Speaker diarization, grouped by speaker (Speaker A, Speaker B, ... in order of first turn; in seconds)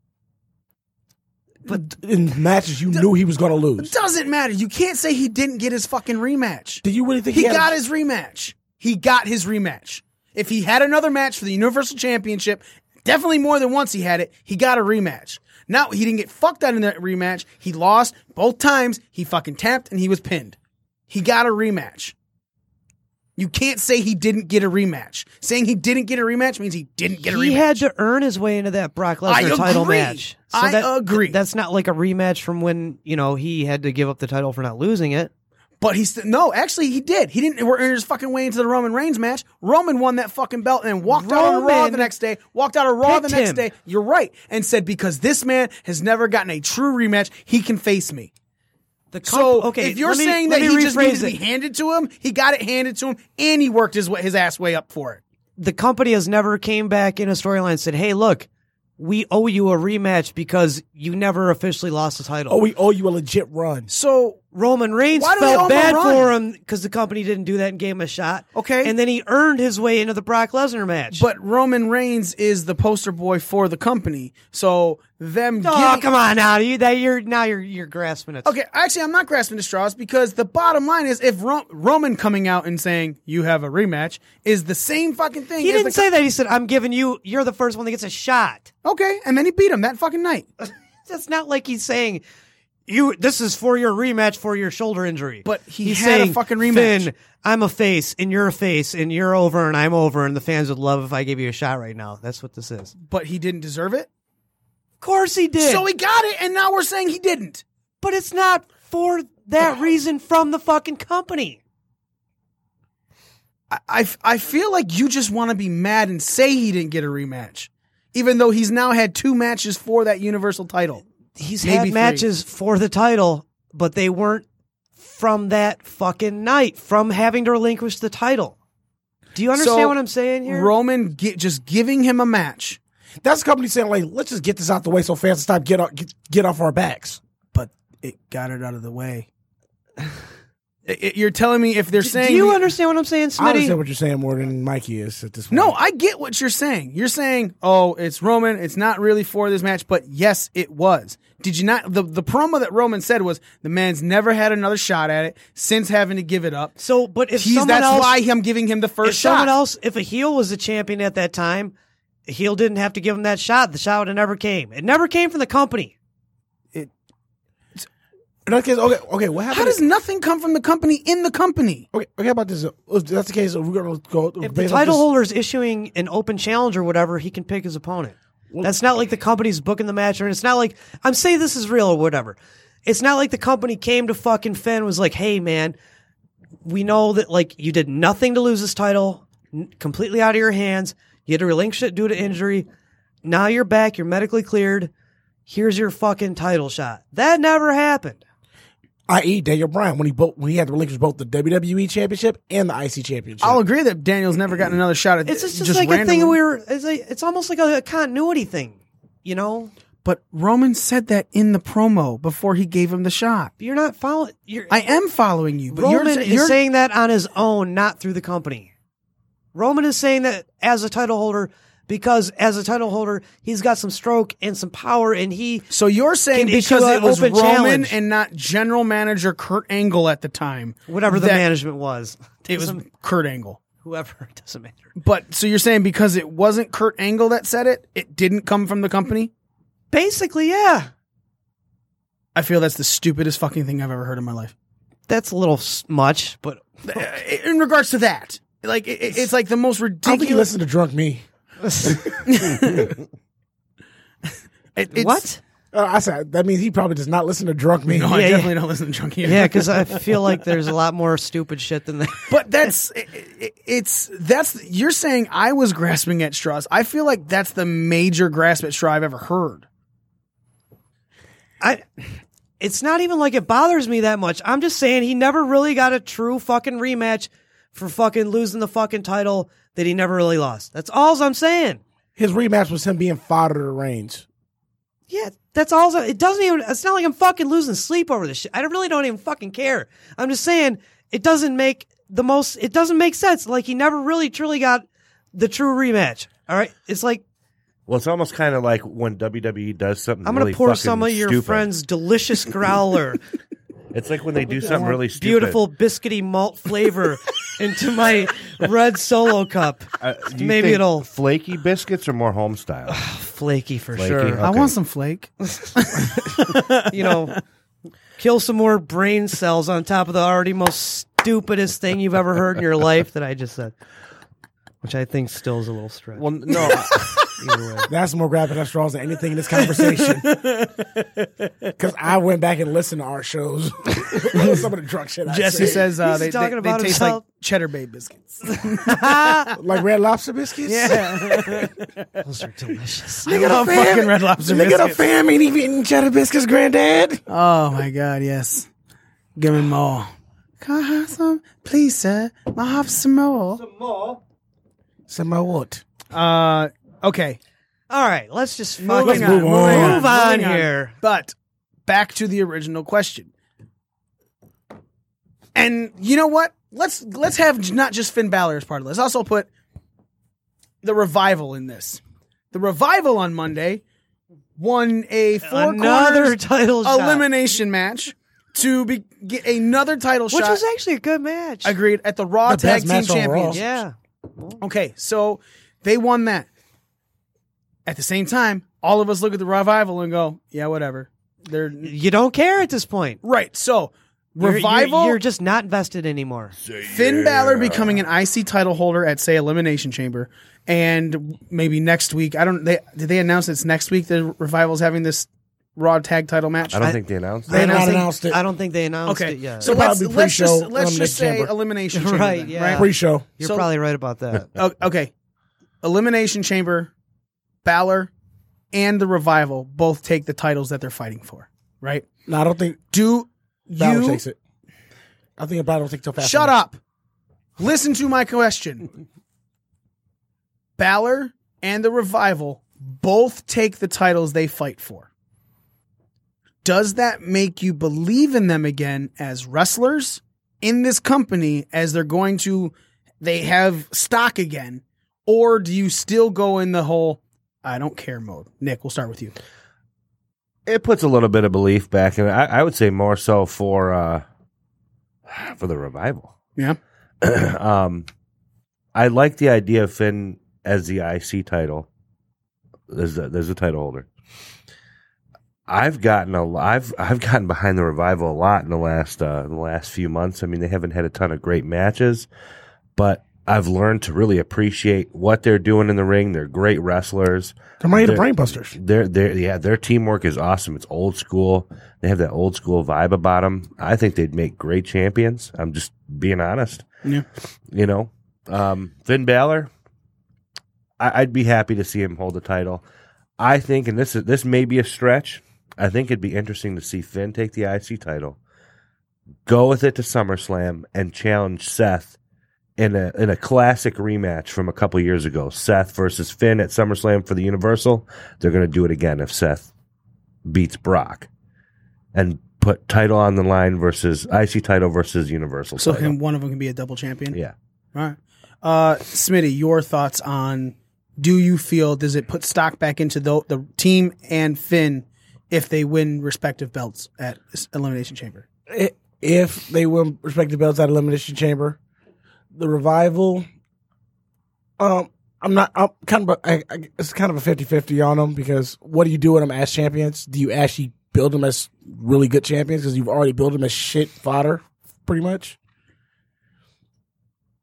Speaker A: 1.7-3.9, 6.8-7.7, 62.5-63.9, 133.2-137.2, 143.4-145.8, 168.5-169.8, 171.9-175.1, 199.1-203.6, 250.0-251.3, 251.8-252.9, 255.7-258.4, 282.2-284.2, 327.9-330.3, 331.8-335.9, 339.6-341.7, 343.3-347.2, 355.1-355.8, 359.0-360.1, 382.4-383.6, 407.5-408.4, 409.6-411.5, 412.7-413.3, 422.3-422.8, 423.8-424.4, 425.4-426.6, 477.8-478.8, 528.7-531.8, 532.5-533.5, 534.8-545.6
Speaker B: 3.8-20.6, 21.1-22.1, 23.4-27.8, 29.3-31.4, 35.8-48.3, 49.2-55.2, 63.9-64.4, 65.1-66.3, 68.5-68.9, 71.1-76.1, 78.4-86.0, 88.8-90.5, 95.5-97.1, 103.0-104.1, 105.6-107.6, 113.7-121.0, 121.6-122.3, 129.6-132.8, 137.5-139.3, 140.9-142.7, 145.5-156.8, 157.4-159.5, 169.5-171.9, 203.4-206.4, 210.0-213.5, 214.7-216.6, 225.7-231.4, 232.5-233.6, 235.0-239.3, 242.3-244.5, 246.8-250.5, 252.3-252.9, 254.8-255.2, 257.9-260.1, 262.3-269.6, 314.4-317.1, 330.2-331.3, 335.3-339.6, 340.7-341.9, 343.3-345.0, 347.3-348.7, 349.4-353.6, 356.1-357.4, 358.8-361.4, 361.9-363.3, 365.6-369.5, 370.8-372.0, 372.5-373.8, 374.6-380.6, 381.6-383.7, 384.6-386.5, 387.9-391.9, 393.2-395.2, 396.9-407.0, 409.1-412.9, 413.4-413.7, 414.5-415.1, 415.8-416.9, 417.6-418.1, 418.7-422.1, 422.9-424.2, 426.2-426.8, 427.6-428.9, 430.8-435.1, 436.6-449.4, 515.8-517.4, 518.0-528.5
Speaker C: 27.2-35.3, 41.1-42.1, 43.0-43.7, 49.1-51.4, 55.6-58.5, 59.0-62.6, 64.5-71.2, 75.6-78.5, 85.6-88.7, 90.6-92.2, 92.9-102.9, 105.0-105.9, 108.0-111.6, 121.4-124.5, 125.0-128.6, 129.3-130.7, 142.0-143.8, 156.8-158.2, 159.0-161.7, 162.3-165.9, 174.4-185.8, 186.7-192.7, 193.2-194.9, 195.5-198.2, 205.3-209.7, 213.6-214.8, 215.7-218.7, 219.6-225.7, 226.3-228.0, 230.9-232.8, 233.8-234.8, 239.9-240.9, 245.1-246.7, 251.6-252.0, 254.9-255.4, 258.1-258.5, 259.2-262.4, 271.6-271.9, 272.6-281.8, 285.1-297.2, 300.2-303.2, 304.6-311.1, 312.9-314.4, 316.9-317.4, 318.2-323.8, 324.8-326.7, 327.5-327.8, 335.6-337.2, 338.8-339.5, 342.2-343.4, 353.7-354.2, 357.9-360.9, 375.4-377.2, 380.3-381.8, 383.5-384.6, 391.8-393.2, 394.4-396.6, 407.5-409.8, 411.9-414.5
Speaker D: 297.9-301.7, 303.9-305.6, 310.0-313.0, 314.0-314.7, 326.2-327.9, 396.6-398.0, 406.7-407.8, 450.7-454.2, 455.3-456.3, 457.2-458.1, 458.9-461.9, 462.9-464.1, 465.7-472.3, 473.0-486.9, 487.7-489.7, 491.0-492.8, 493.4-498.4, 499.5-502.2, 502.8-509.7, 510.4-511.3, 512.1-516.2